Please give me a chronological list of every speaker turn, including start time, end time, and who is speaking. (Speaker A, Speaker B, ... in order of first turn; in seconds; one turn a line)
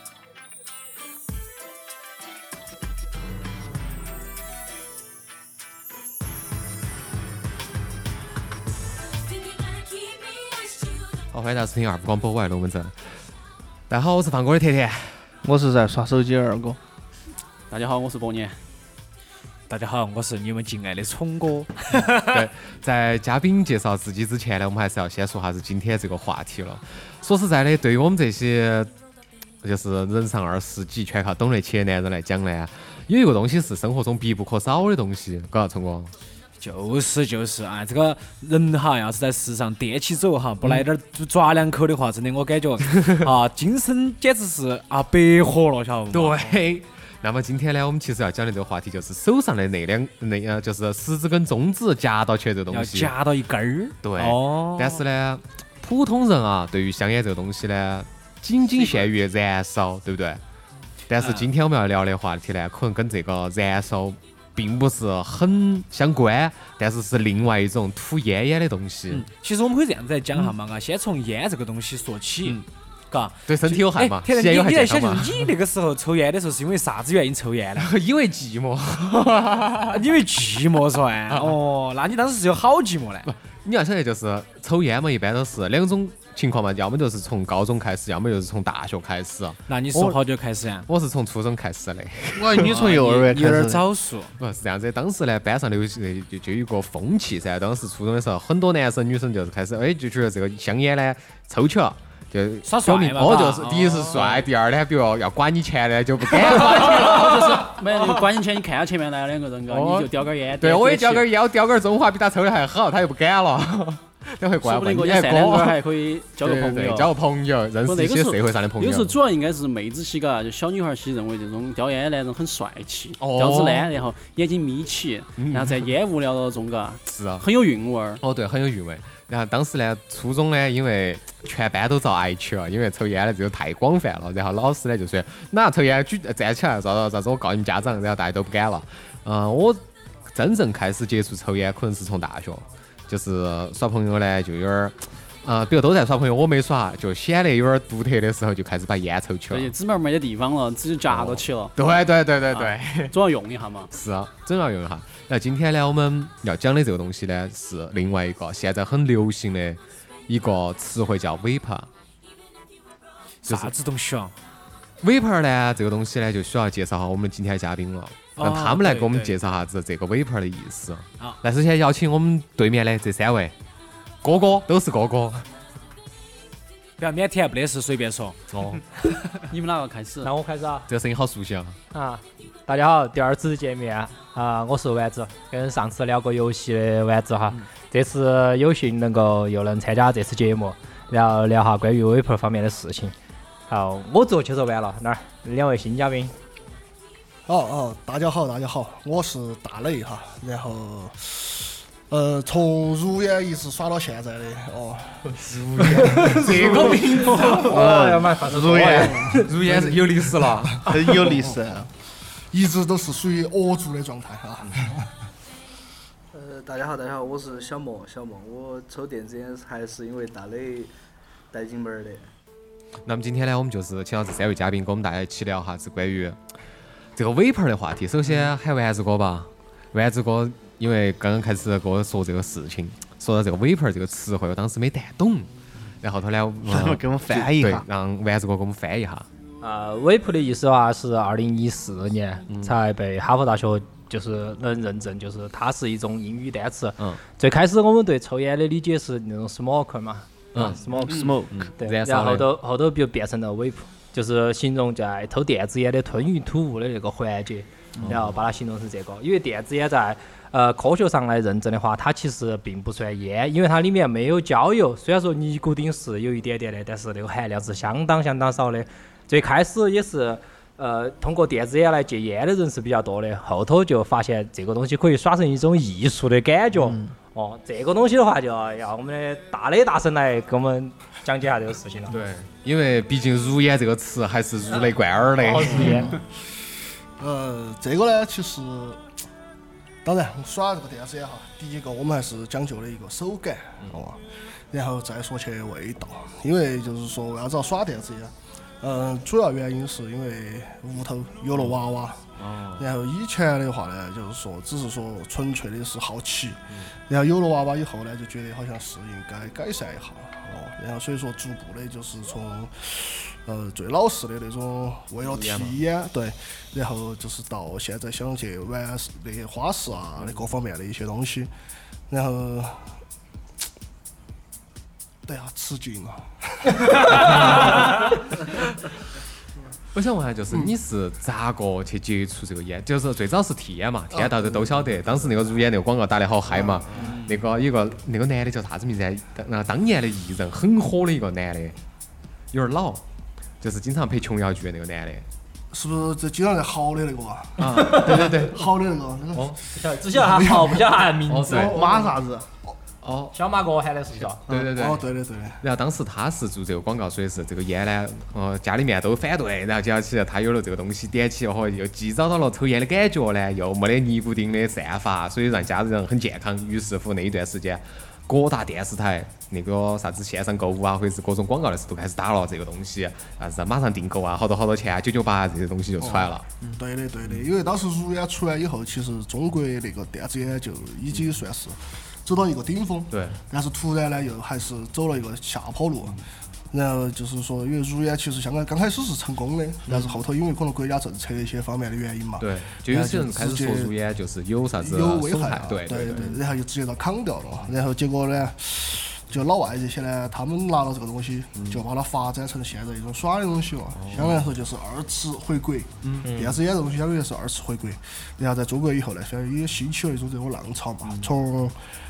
Speaker A: 11.3-13.2
Speaker A: 13.9-15.3
Speaker B: 15.4-16.8
Speaker C: 17.7-18.6
Speaker D: 19.7-22.5
Speaker A: 22.3-28.9
Speaker A: 29.6-36.1
Speaker D: 36.6-46.6
Speaker A: 46.1-53.1
Speaker D: 52.7-55.0
Speaker A: 54.0-60.4
Speaker D: 58.8-59.1
Speaker A: 61.1-69.3
Speaker D: 61.2-61.5
Speaker D: 69.1-77.9
Speaker A: 73.5-75.4
Speaker A: 77.8-80.1
Speaker D: 79.9-83.3
Speaker A: 81.3-81.6
Speaker A: 83.2-90.2
Speaker D: 89.7-90.9
Speaker A: 90.9-92.6
Speaker B: 92.4-93.8
Speaker D: 92.5-94.3
Speaker A: 94.4-107.8
Speaker D: 102.6-104.5
Speaker C: 106.5-111.3
Speaker A: 109.7-115.8
Speaker C: 114.6-117.1
Speaker A: 116.4-119.2
Speaker C: 117.9-128.2
Speaker A: 123.2-123.9
Speaker A: 125.4-125.9
Speaker A: 127.1-127.5
Speaker A: 128.2-149.7
Speaker C: 149.5-151.7
Speaker A: 151.1-153.1
Speaker C: 152.5-153.9
Speaker A: 153.9-161.9
Speaker D: 163.4-164.3
Speaker A: 163.5-163.7
Speaker A: 165.0-173.5
Speaker D: 168.3-169.4
Speaker A: 174.2-175.5
Speaker D: 177.0-178.4
Speaker A: 178.5-178.8
Speaker C: 179.5-180.3
Speaker E: 180.2-180.9
Speaker A: 180.9-181.8
Speaker E: 181.9-193.1
Speaker E: 193.7-196.3
Speaker F: 197.5-205.4
Speaker A: 205.4-207.9
Speaker E: 205.8-209.5
Speaker F: 205.9-206.4
Speaker B: 207.6-209.4
Speaker A: 209.0-211.2
Speaker F: 209.7-210.4
Speaker B: 210.8-211.9
Speaker F: 211.2-211.6
Speaker F: 212.5-215.1
Speaker G: 216.3-220.9
Speaker G: 221.5-222.3
Speaker A: 223.1-226.4
Speaker A: 227.2-235.5
Speaker A: 236.0-239.3
Speaker B: 236.7-237.8
Speaker E: 239.6-282.2
Speaker A: 242.5-242.8
Speaker A: 250.5-252.5
Speaker B: 251.1-251.6
Speaker A: 258.0-258.4
Speaker A: 282.1-286.1
Speaker E: 285.5-286.1
Speaker F: 287.2-289.0
Speaker F: 290.0-321.5
Speaker A: 302.4-302.9
Speaker A: 315.3-315.8
Speaker F: 322.1-322.8
Speaker F: 325.3-327.9
Speaker A: 327.1-328.0
Speaker A: 329.9-341.8
Speaker F: 334.2-334.9
Speaker F: 336.6-337.2
Speaker A: 342.5-343.0
Speaker A: 343.6-345.3
Speaker F: 345.7-349.6
Speaker A: 347.6-348.6
Speaker E: 347.8-348.3
Speaker E: 349.6-351.8
Speaker F: 350.1-352.7
Speaker A: 351.3-351.8
Speaker B: 351.5-352.5
Speaker A: 353.0-353.4
Speaker E: 353.3-354.4
Speaker A: 354.5-355.1
Speaker F: 354.6-355.6
Speaker A: 355.6-376.5
Speaker F: 376.0-386.2
Speaker A: 383.1-383.4
Speaker F: 386.7-393.9
Speaker A: 389.9-390.1
Speaker A: 392.4-396.4
Speaker F: 394.8-411.8
Speaker A: 401.6-401.8
Speaker A: 404.0-404.5
Speaker A: 406.0-406.3
Speaker E: 406.2-406.6